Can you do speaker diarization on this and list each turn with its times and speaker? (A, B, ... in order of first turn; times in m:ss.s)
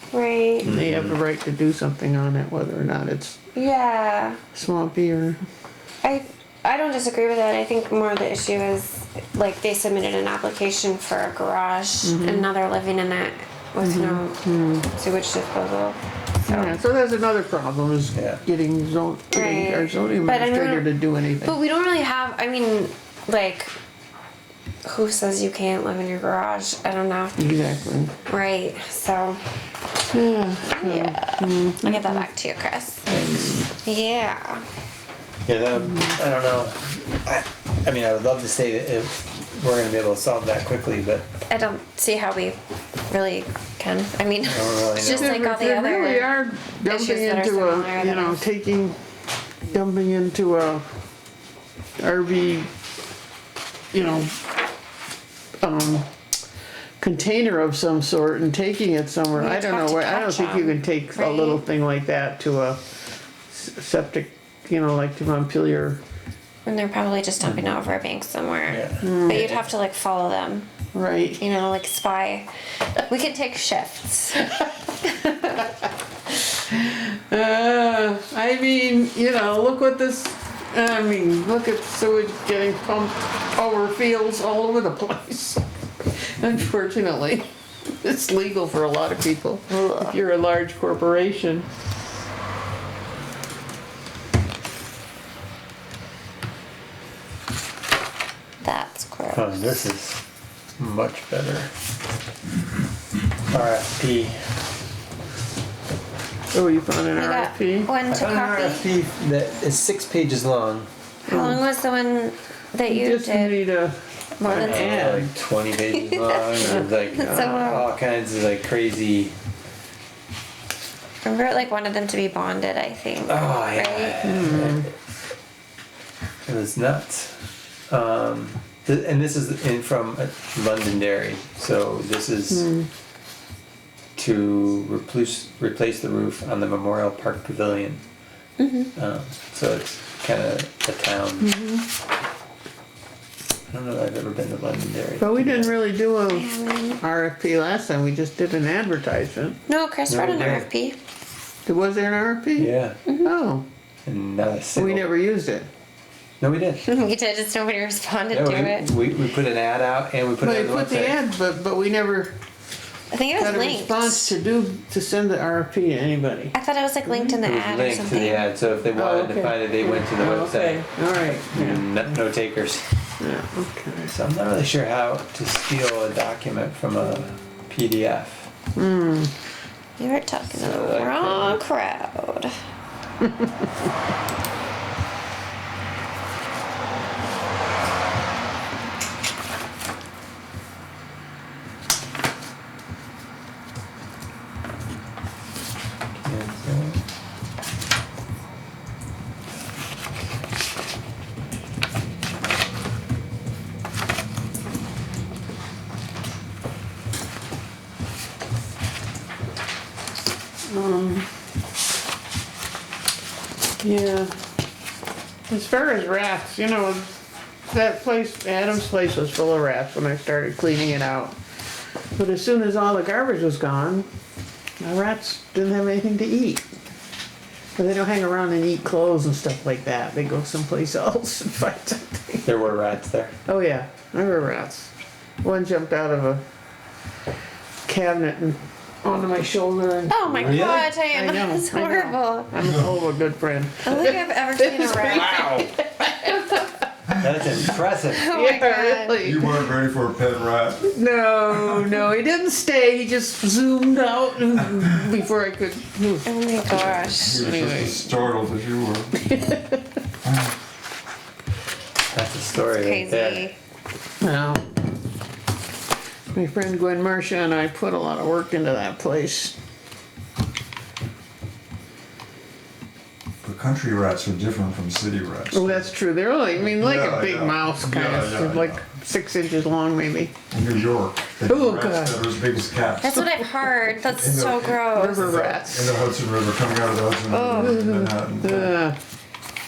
0:00.1-0:00.7 A
0:00.6-0:01.2 B
0:00.6-0:03.4 C
0:03.5-0:04.4 A
0:04.5-0:05.4 C
0:06.0-0:16.8 A
0:12.0-0:12.5 C
0:13.8-0:14.9 C
0:16.5-0:21.6 C
0:18.1-0:18.4 B
0:19.3-0:20.9 A
0:21.4-0:23.7 A
0:24.8-0:27.6 A
0:27.4-0:28.1 C
0:28.2-0:29.4 A
0:30.1-0:32.2 C
0:30.6-0:33.1 A
0:33.1-0:33.7 C
0:33.2-0:33.5 B
0:33.7-0:34.6 A
0:35.4-0:41.3 B
0:41.5-0:42.6 A
0:43.1-0:46.3 A
0:44.4-0:45.4 B
0:45.0-0:49.0 C
0:46.8-0:48.4 A
0:49.6-0:50.8 C
0:52.0-0:52.7 C
0:53.9-0:54.3 C
0:55.6-0:56.1 C
0:57.0-1:02.8 C
0:59.3-1:01.6 A
1:03.5-1:06.0 C
1:06.6-1:10.7 A
1:07.4-1:07.8 B
1:08.7-1:09.6 B
1:09.0-1:09.6 C
1:10.9-1:11.4 C
1:11.4-1:12.5 A
1:13.0-1:15.6 A
1:16.7-1:25.6 C
1:26.2-1:31.7 C
1:29.7-1:30.2 A
1:38.6-1:39.8 A
1:39.3-1:40.2 B
1:40.8-1:41.7 B
1:43.5-1:44.3 B
1:46.5-1:47.9 C
1:47.2-1:48.8 A
1:48.1-1:50.9 B
1:51.3-1:53.6 A
1:51.3-1:51.6 C
1:52.8-1:55.3 C
1:54.4-1:54.8 A
1:54.5-1:59.3 B
1:56.2-1:57.9 A
1:56.6-1:57.7 C
2:01.2-2:04.3 A
2:03.2-2:04.9 B
2:04.2-2:04.9 C
2:06.5-2:12.6 B
2:12.5-2:12.9 C
2:14.2-2:18.0 B
2:18.6-2:18.9 A
2:19.0-2:21.5 B
2:21.4-2:21.8 C
2:23.7-2:25.8 B
2:25.2-2:29.6 C
2:26.3-2:27.0 A
2:29.7-2:31.0 A
2:30.1-2:30.7 B
2:31.6-2:33.7 C
2:32.6-2:33.0 B
2:34.0-2:35.0 B
2:34.7-2:35.7 C
2:36.4-2:36.8 B
2:36.8-2:38.9 A
2:38.3-2:41.2 B
2:40.4-2:42.3 C
2:43.1-2:44.3 A
2:43.3-2:46.5 C
2:46.5-2:48.5 A
2:47.3-2:53.0 B
2:48.9-2:52.1 C
2:53.2-2:54.1 C
2:54.1-2:58.5 B
2:58.8-2:59.3 C
3:00.0-3:02.5 A
3:00.5-3:01.6 B
3:16.2-3:17.0 B
3:30.6-3:31.3 C
3:33.8-3:34.4 C
3:35.5-3:37.1 C
3:37.7-3:41.4 C
3:42.2-3:44.0 C
3:44.8-3:46.7 C
3:47.8-3:52.5 C
3:52.4-3:53.3 B
3:53.4-3:56.4 C
3:57.9-4:06.8 C
4:00.1-4:02.7 A
4:00.2-4:01.0 B
4:02.6-4:02.9 D
4:03.8-4:05.6 A
4:07.2-4:08.3 B
4:08.1-4:09.2 A
4:08.3-4:09.6 C
4:09.2-4:10.9 D
4:10.8-4:18.2 C
4:11.5-4:12.0 D
4:16.2-4:17.4 A
4:17.0-4:19.2 D
4:19.2-4:19.8 C
4:20.2-4:20.5 D
4:22.1-4:23.5 B
4:22.7-4:23.6 A
4:24.2-4:24.6 C
4:26.3-4:29.5 C
4:33.4-4:35.9 D
4:35.5-4:40.3 C
4:36.6-4:38.8 D
4:40.5-4:43.3 D
4:41.5-4:42.3 C
4:43.0-4:45.3 A
4:44.0-4:48.8 D
4:44.9-4:46.1 C
4:47.3-4:47.8 A
4:47.5-4:49.0 C